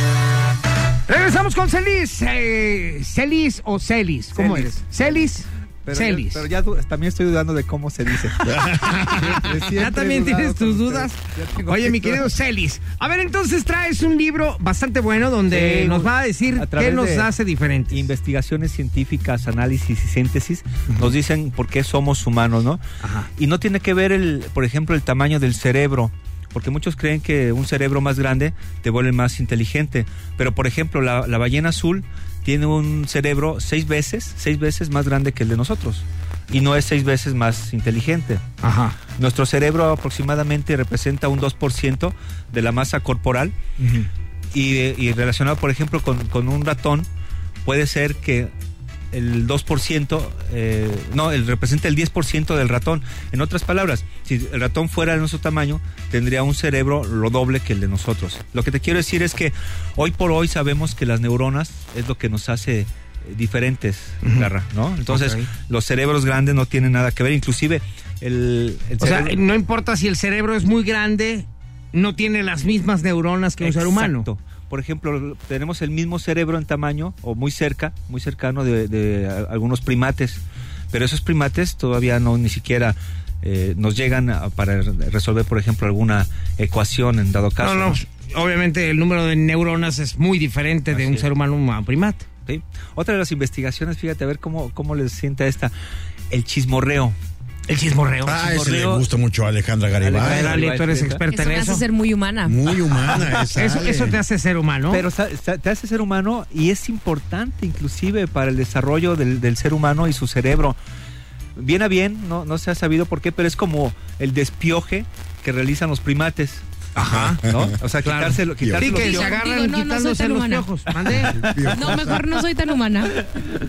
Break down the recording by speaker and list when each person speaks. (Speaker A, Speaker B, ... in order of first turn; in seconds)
Speaker A: 1.1-6.4, 8.3-18.1, 23.0-23.3, 38.6-39.0, 43.8-44.0, 64.2-64.5, 65.1-65.5, 69.0-74.3, 87.6-92.2, 97.7-98.7, 100.2-101.8, 103.1-105.0, 117.0-117.4, 118.0-121.5
Speaker B: 4.3-5.3, 5.8-8.5, 9.1-12.3, 15.5-17.3, 17.9-22.8, 23.4-38.4, 39.1-43.5, 44.5-47.1, 47.6-48.5, 49.1-69.4, 73.6-88.0, 90.9-91.2, 92.5-95.7, 96.3-97.2, 98.4-99.0, 99.9-101.2, 104.9-110.8, 111.5-116.6, 117.4-119.3, 121.1-121.5
Speaker C: 8.4-9.4, 98.2-100.6, 102.4-104.2, 117.0-117.8, 121.3-122.3
Speaker D: 101.3-102.6, 118.8-120.7, 121.7-123.1